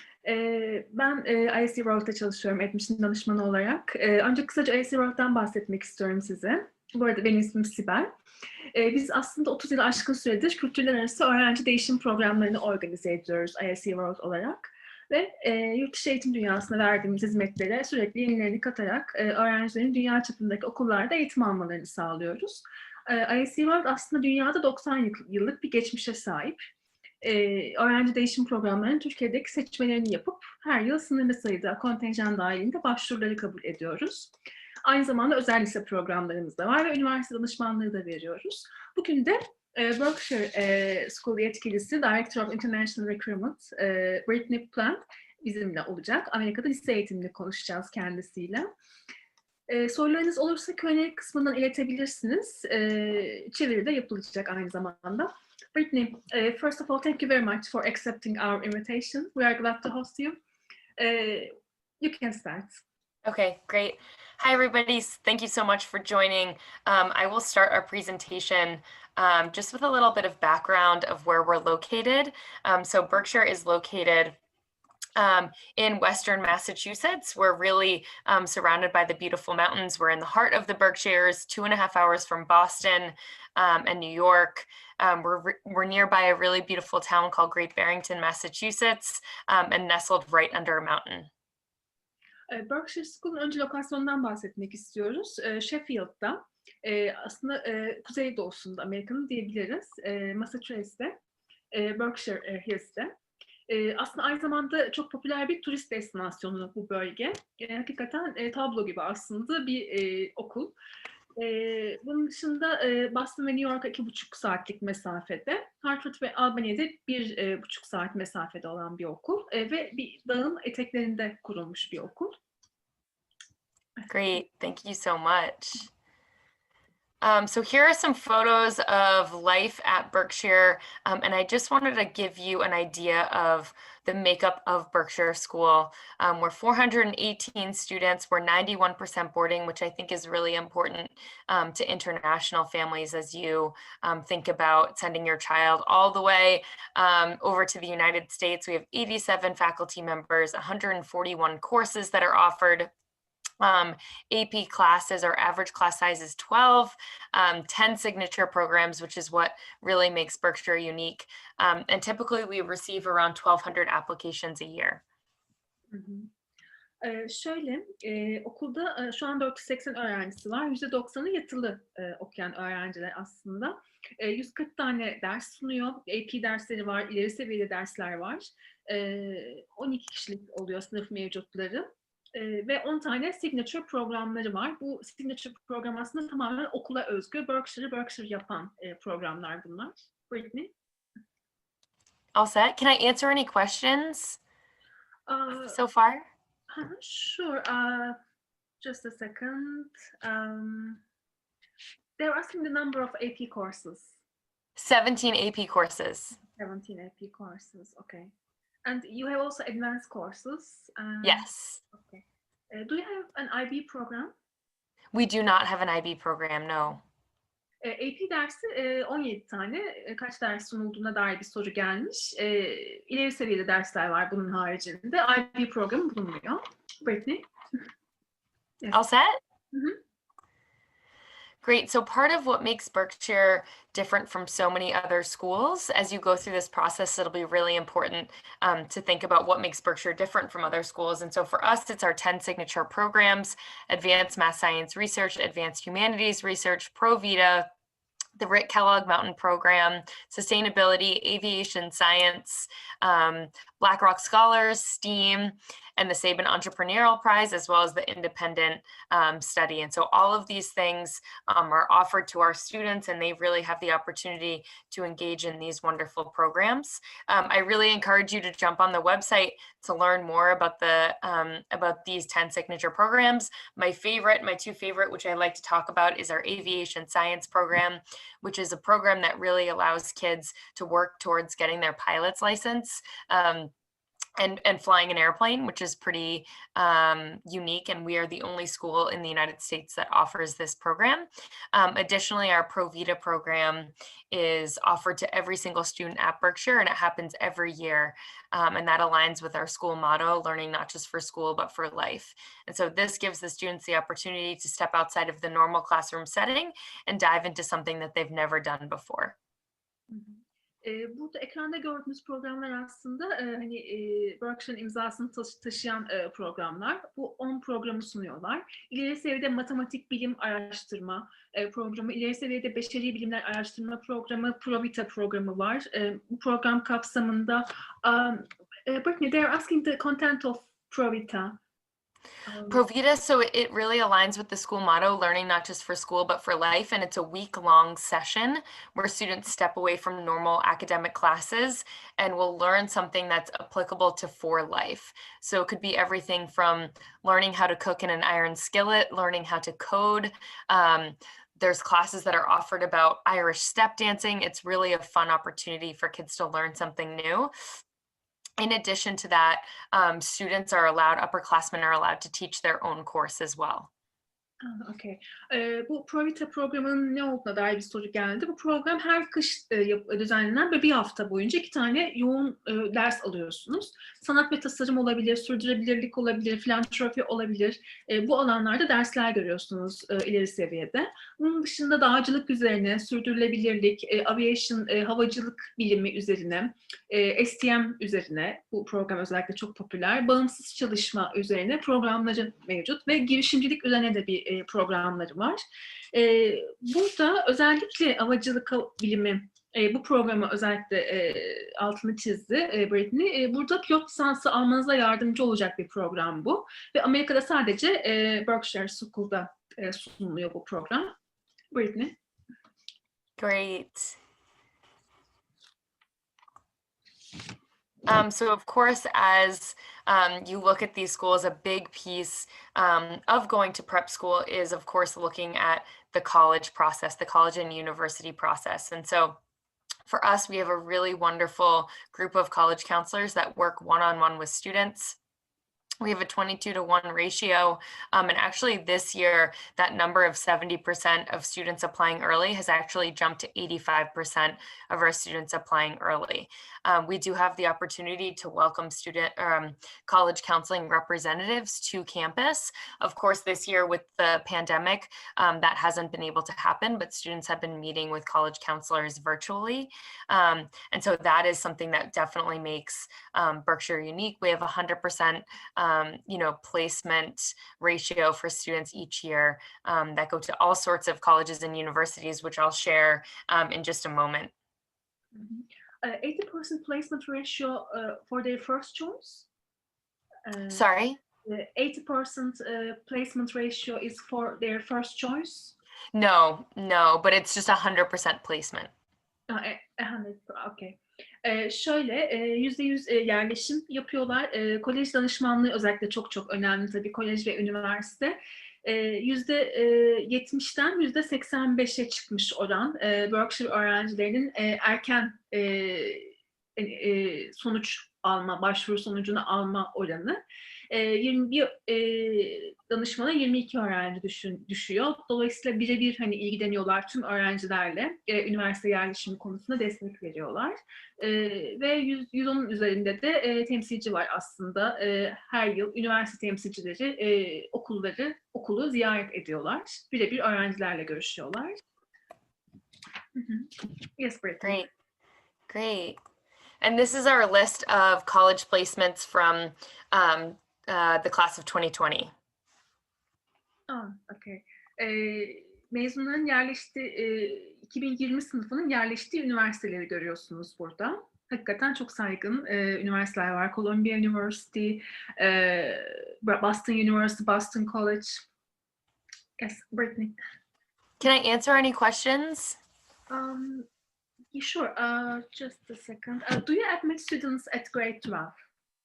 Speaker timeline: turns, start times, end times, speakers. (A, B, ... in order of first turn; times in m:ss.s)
0:00.2-0:08.1 A
0:08.7-0:26.6 A
0:27.2-0:34.3 A
0:34.8-0:48.7 A
0:49.7-1:00.4 A
1:01.0-1:02.8 A
1:03.2-1:14.4 B
1:15.2-1:31.3 B
1:32.5-1:41.2 A
1:41.7-1:43.1 A
1:43.7-1:50.7 A
1:51.4-2:02.4 A
2:04.1-2:05.9 B
2:07.2-2:32.9 B
2:33.6-2:45.0 B
2:45.9-2:46.3 A
2:47.0-3:10.7 A
3:12.3-3:14.4 B
3:15.3-3:15.8 A
3:15.7-3:16.3 B
3:16.7-3:18.2 A
3:18.8-3:21.0 A
3:22.2-3:24.2 A
3:24.8-3:26.4 B
3:26.4-3:28.3 A
3:28.8-3:34.3 A
3:31.2-3:31.8 B
3:35.1-3:37.0 B
3:37.8-3:47.5 A
3:48.9-3:49.4 B
3:49.7-3:50.0 A
3:51.6-4:07.7 B
4:08.4-4:43.7 B
4:44.4-5:09.4 B
5:10.1-5:31.6 A
5:32.4-5:32.8 A
5:32.7-5:57.5 B
5:58.6-6:03.9 B
6:04.6-6:35.6 A
6:36.1-6:51.1 A
6:51.7-6:52.2 A
6:53.4-6:54.2 B
6:58.1-7:09.4 B
7:10.1-7:15.2 B
7:16.0-7:54.5 B
7:55.3-7:59.5 A
8:00.5-8:00.9 A
8:00.7-8:01.2 B
8:01.4-8:05.8 A
8:06.1-8:08.9 B
8:09.5-8:51.8 A
8:53.4-8:54.9 A
8:54.6-8:54.9 B
8:55.7-8:56.2 B
8:56.8-9:02.3 B
9:03.9-9:18.4 A
9:19.6-9:20.4 A
9:21.2-9:22.8 B
9:23.3-9:23.9 A
9:24.5-9:28.5 A